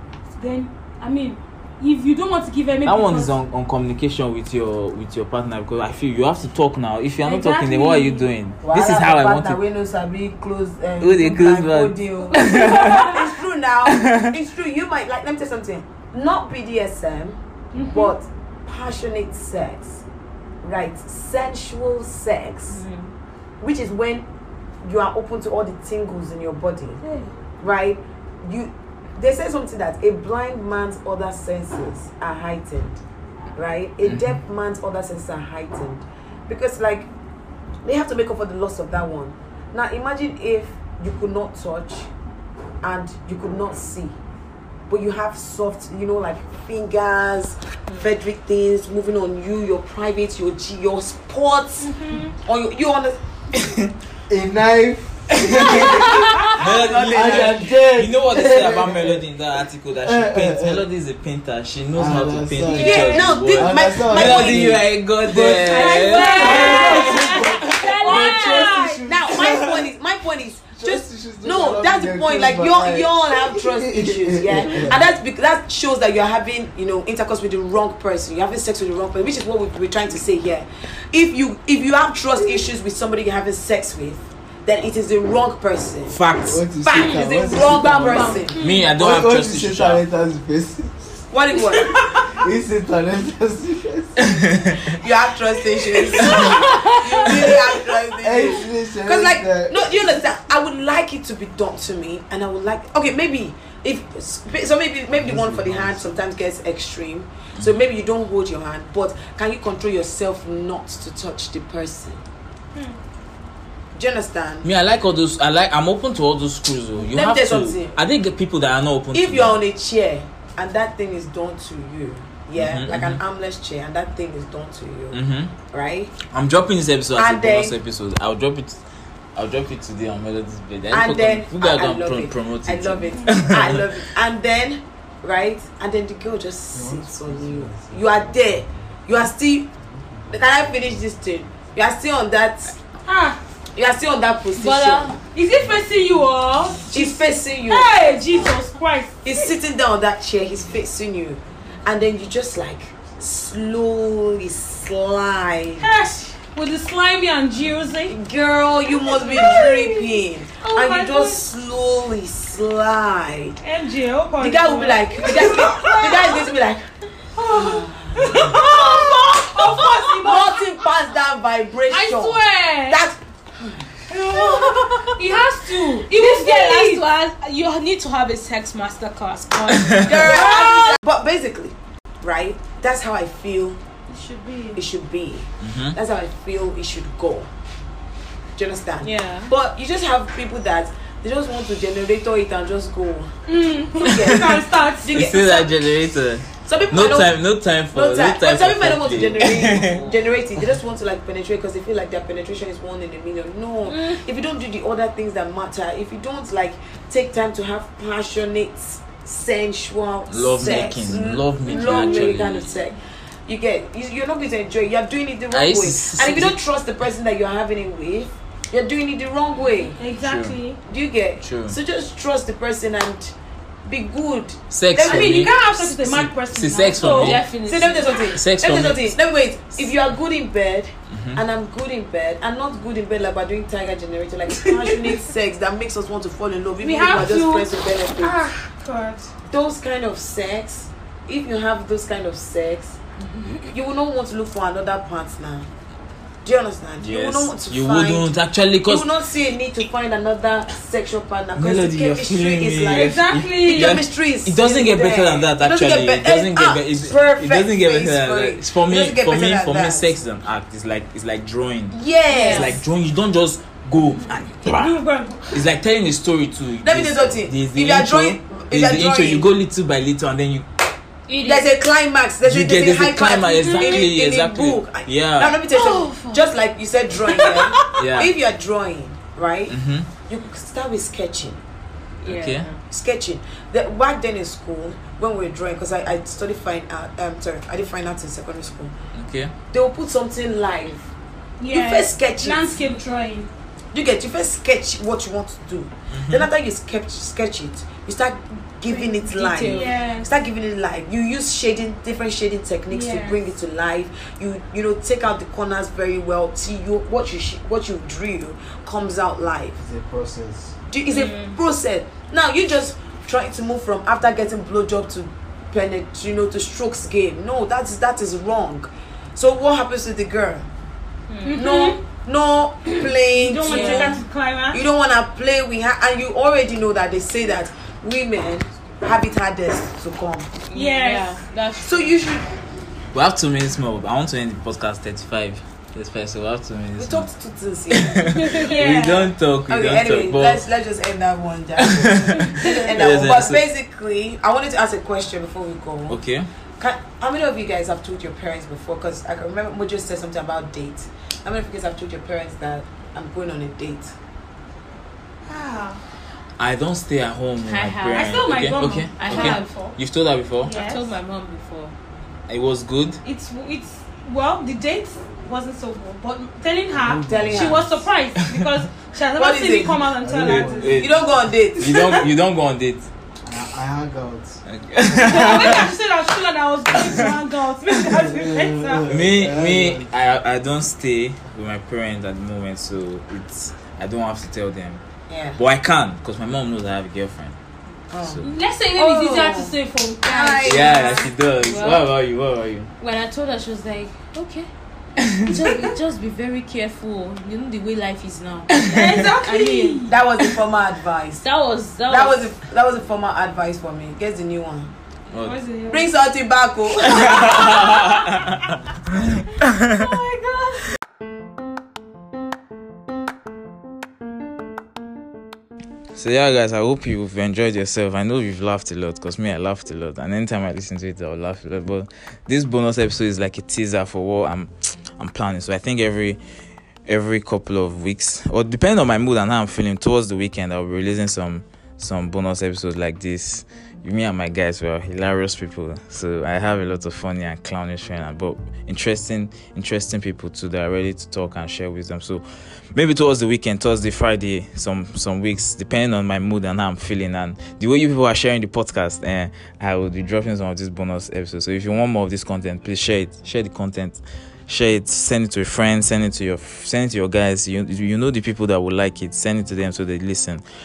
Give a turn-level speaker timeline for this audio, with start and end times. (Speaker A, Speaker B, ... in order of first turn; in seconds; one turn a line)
Speaker A: 0.3-3.4
Speaker B: 2.8-9.6
Speaker A: 7.2-8.3
Speaker C: 8.6-20.0
Speaker B: 11.0-13.2
Speaker D: 12.3-13.2
Speaker A: 12.5-13.0
Speaker B: 13.8-14.3
Speaker A: 17.7-18.1
Speaker D: 17.7-18.0
Speaker C: 20.6-22.8
Speaker D: 22.7-23.1
Speaker C: 23.6-24.3
Speaker C: 24.8-27.0
Speaker A: 27.0-27.3
Speaker C: 27.6-33.0
Speaker C: 33.5-37.1
Speaker B: 34.0-34.4
Speaker C: 37.8-42.1
Speaker C: 42.8-44.1
Speaker C: 44.9-53.2
Speaker A: 51.8-52.3
Speaker B: 53.5-53.9
Speaker E: 54.3-59.2
Speaker B: 55.3-67.5
Speaker E: 60.0-60.8
Speaker E: 61.9-69.9
Speaker D: 62.7-63.1
Speaker C: 62.7-64.8
Speaker D: 65.6-69.0
Speaker A: 65.7-69.0
Speaker C: 68.0-86.2
Speaker B: 69.4-69.6
Speaker E: 70.7-75.1
Speaker B: 86.1-86.6
Speaker E: 86.5-88.4
Speaker C: 86.8-88.6
Speaker D: 86.9-88.8
Speaker A: 88.5-88.9
Speaker B: 88.6-90.0
Speaker E: 89.0-91.2
Speaker C: 91.3-92.0
Speaker E: 91.8-94.6
Speaker B: 94.2-95.0
Speaker C: 94.8-112.2
Speaker B: 96.0-96.4
Speaker D: 96.2-97.5
Speaker A: 96.6-97.0
Speaker E: 98.2-99.9
Speaker E: 105.1-106.1
Speaker C: 113.9-114.7
Speaker B: 114.6-119.6
Speaker C: 117.0-118.0
Speaker C: 119.1-125.2
Speaker B: 122.5-123.2
Speaker B: 125.1-125.5
Speaker C: 125.7-126.2
Speaker B: 126.3-128.8
Speaker C: 127.1-127.8
Speaker B: 129.3-134.0
Speaker C: 130.9-139.7
Speaker E: 136.7-138.9
Speaker E: 139.8-141.0
Speaker C: 140.3-142.8
Speaker A: 143.0-143.4
Speaker C: 143.7-145.1
Speaker D: 144.6-145.2
Speaker A: 145.3-149.5
Speaker C: 146.9-148.2
Speaker C: 149.2-155.9
Speaker A: 155.8-158.2
Speaker C: 158.1-163.6
Speaker A: 159.0-161.4
Speaker A: 163.6-166.5
Speaker C: 164.4-166.8
Speaker A: 167.3-170.6
Speaker C: 167.5-173.8
Speaker D: 168.5-170.4
Speaker A: 171.9-172.9
Speaker D: 171.9-173.0
Speaker A: 174.1-177.0
Speaker D: 174.1-180.9
Speaker C: 180.0-183.8
Speaker A: 180.3-180.8
Speaker D: 184.1-184.8
Speaker C: 184.7-187.5
Speaker B: 185.6-185.9
Speaker C: 188.6-193.3
Speaker D: 189.0-189.5
Speaker A: 193.5-195.3
Speaker C: 194.0-195.9
Speaker B: 194.0-200.0
Speaker C: 196.6-197.3
Speaker C: 197.9-220.0
Speaker D: 199.7-200.1
Speaker D: 203.9-204.2
Speaker B: 210.3-212.6
Speaker D: 211.8-212.3
Speaker B: 215.5-216.6
Speaker A: 219.9-220.8
Speaker B: 220.2-220.6
Speaker C: 220.8-223.3
Speaker B: 221.4-221.8
Speaker C: 223.8-225.6
Speaker B: 224.7-227.4
Speaker A: 225.0-227.4
Speaker D: 227.0-228.3
Speaker C: 227.6-238.4
Speaker B: 228.3-229.2
Speaker B: 231.1-231.4
Speaker A: 236.8-239.3
Speaker C: 239.5-243.0
Speaker C: 243.7-245.7
Speaker C: 246.4-248.3
Speaker B: 247.0-249.1
Speaker C: 248.8-260.1
Speaker B: 251.6-270.7
Speaker A: 252.9-254.0
Speaker C: 261.9-262.8
Speaker D: 262.3-262.8
Speaker A: 264.7-265.6
Speaker C: 266.8-269.5
Speaker D: 271.3-271.7
Speaker C: 271.4-279.8
Speaker B: 272.4-275.6
Speaker D: 275.7-276.5
Speaker D: 277.2-278.0
Speaker B: 278.0-278.3
Speaker B: 279.7-280.1
Speaker C: 280.3-281.6
Speaker D: 282.2-282.8
Speaker B: 282.2-282.7
Speaker C: 282.9-288.9
Speaker B: 289.1-289.5
Speaker C: 289.7-291.1
Speaker A: 291.6-293.5
Speaker C: 291.7-292.8
Speaker C: 293.9-309.8
Speaker B: 296.1-296.5
Speaker D: 298.9-299.9
Speaker A: 299.6-300.3
Speaker A: 302.9-303.4
Speaker E: 309.8-310.8
Speaker C: 310.9-320.7
Speaker D: 311.1-311.6
Speaker D: 321.3-321.8
Speaker A: 321.4-322.0
Speaker C: 321.5-330.5
Speaker A: 323.3-324.8
Speaker D: 323.6-324.2
Speaker D: 330.7-332.1
Speaker A: 330.7-331.4
Speaker C: 331.8-332.4
Speaker B: 333.1-337.3
Speaker C: 337.0-338.7
Speaker B: 337.9-340.6
Speaker A: 338.5-339.3
Speaker C: 339.7-346.2
Speaker B: 341.8-343.6
Speaker B: 346.1-346.5
Speaker C: 346.8-354.1
Speaker A: 355.5-356.0
Speaker B: 356.6-360.7
Speaker D: 357.6-359.9
Speaker A: 358.1-359.9
Speaker A: 360.6-361.1
Speaker D: 360.6-361.9
Speaker B: 362.5-363.2
Speaker A: 363.2-371.1
Speaker E: 366.9-367.9
Speaker C: 367.2-368.1
Speaker C: 369.4-370.1
Speaker E: 370.2-371.3
Speaker B: 370.3-373.1
Speaker C: 370.9-372.1
Speaker A: 371.8-372.3
Speaker E: 373.4-375.8
Speaker B: 374.7-375.9
Speaker A: 375.1-379.2
Speaker B: 376.9-377.4
Speaker E: 378.1-380.0
Speaker B: 379.1-385.0
Speaker C: 385.3-385.6
Speaker B: 385.6-387.5
Speaker C: 388.1-388.4
Speaker D: 388.4-392.1
Speaker C: 388.9-391.3
Speaker B: 390.6-392.9
Speaker D: 393.0-394.7
Speaker B: 395.2-395.6
Speaker D: 395.4-400.1
Speaker B: 398.7-399.2
Speaker A: 398.8-400.2
Speaker C: 400.1-401.4
Speaker D: 401.4-402.5
Speaker C: 402.1-404.9
Speaker B: 405.3-405.6
Speaker A: 405.4-406.1
Speaker C: 405.9-407.9
Speaker B: 407.1-408.6
Speaker A: 407.2-408.4
Speaker B: 416.1-426.4
Speaker B: 427.1-442.4
Speaker B: 442.9-460.6